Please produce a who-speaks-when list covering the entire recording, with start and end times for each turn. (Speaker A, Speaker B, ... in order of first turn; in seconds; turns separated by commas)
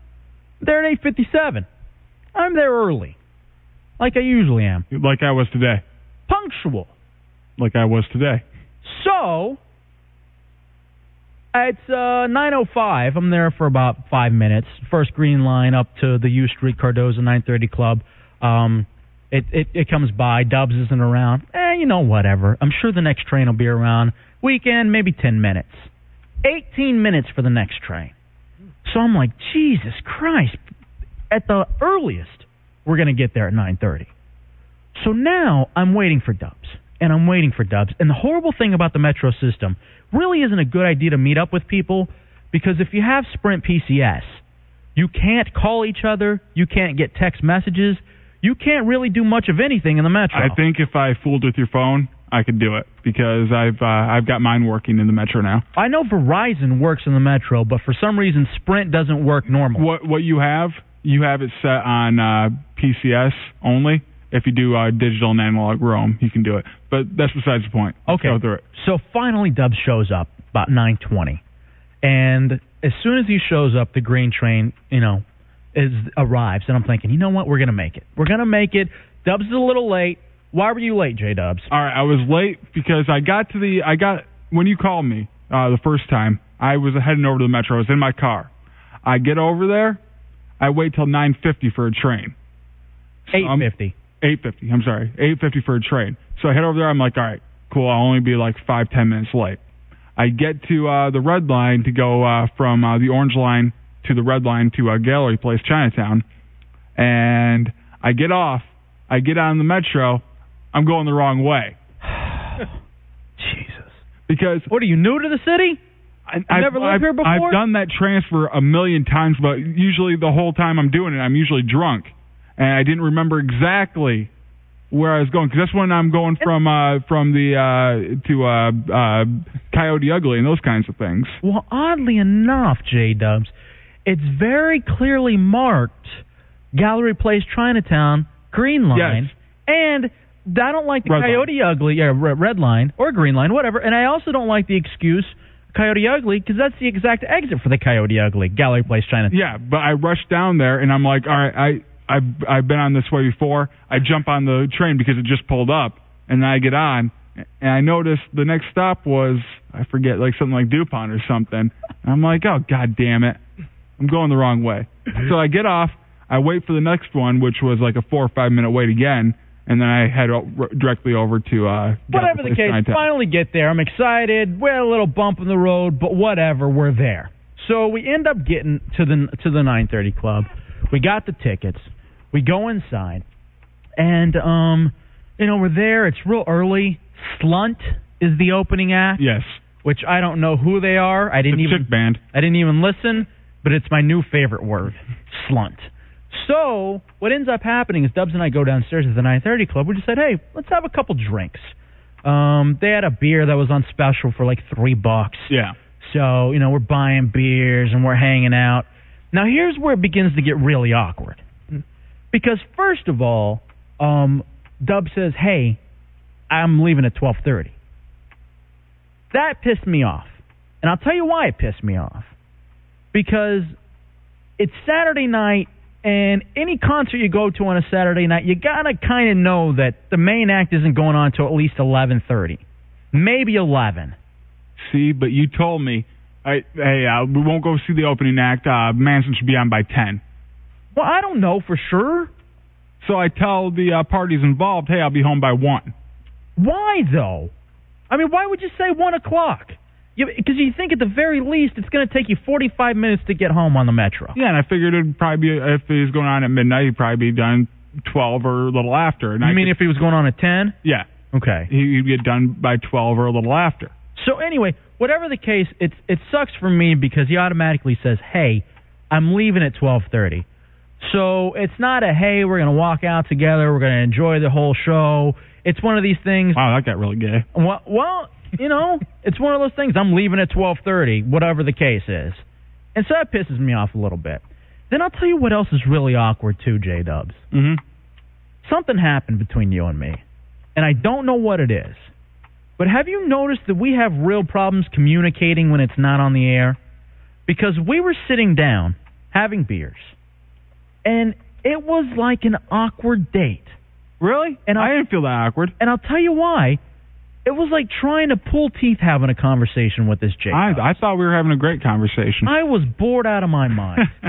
Speaker A: 0.6-1.7, Speaker A: 2.4-3.2, Speaker A: 4.0-4.9, Speaker B: 4.9-5.8, Speaker A: 6.3-6.9, Speaker B: 7.6-8.4, Speaker A: 8.8-9.6, Speaker A: 11.5-25.9, Speaker A: 26.4-28.1, Speaker A: 28.9-30.6, Speaker A: 31.3-34.1, Speaker A: 35.0-44.4, Speaker A: 45.0-50.6, Speaker B: 50.3-55.6, Speaker A: 55.8-59.9, Speaker B: 59.7-68.6, Speaker A: 68.1-71.4, Speaker A: 72.0-75.2, Speaker A: 75.8-81.7, Speaker B: 81.7-88.5, Speaker B: 89.0-90.0, Speaker B: 90.6-92.3, Speaker B: 93.3-93.7, Speaker A: 93.3-93.9, Speaker B: 94.2-99.6, Speaker B: 100.2-106.2, Speaker B: 107.0-111.8, Speaker A: 112.0-112.7, Speaker A: 113.4-114.0, Speaker B: 114.3-114.7, Speaker A: 114.7-115.8, Speaker B: 116.3-124.3, Speaker A: 116.5-117.6, Speaker B: 124.9-131.4, Speaker A: 131.4-133.5, Speaker A: 134.1-136.2, Speaker A: 136.7-149.4, Speaker B: 138.9-139.3, Speaker B: 141.1-141.5, Speaker B: 149.3-163.4, Speaker B: 164.0-173.1, Speaker A: 172.1-183.2, Speaker A: 184.0-189.2, Speaker B: 189.2-189.6, Speaker A: 189.8-211.4, Speaker B: 191.5-192.2, Speaker B: 205.5-205.8, Speaker A: 212.3-215.8, Speaker A: 216.5-217.8, Speaker A: 219.3-222.3, Speaker A: 223.1-223.8, Speaker A: 224.6-232.6, Speaker A: 233.1-234.2, Speaker B: 234.8-240.2, Speaker A: 240.9-242.3, Speaker B: 243.0-245.9, Speaker A: 246.6-247.5, Speaker A: 248.1-254.4, Speaker B: 254.3-259.8, Speaker A: 259.4-260.8, Speaker A: 261.3-261.7, Speaker B: 261.7-263.9, Speaker A: 264.1-270.4, Speaker A: 271.0-276.6, Speaker B: 276.5-277.5, Speaker A: 277.5-282.4, Speaker A: 282.9-287.4, Speaker B: 287.5-287.8, Speaker A: 288.6-290.2, Speaker A: 290.8-292.1, Speaker A: 292.8-296.8, Speaker A: 297.5-300.1, Speaker A: 301.1-303.8, Speaker B: 304.2-305.7, Speaker A: 304.7-304.9, Speaker A: 305.8-306.8, Speaker A: 307.4-310.9, Speaker B: 310.5-312.5, Speaker A: 312.5-314.1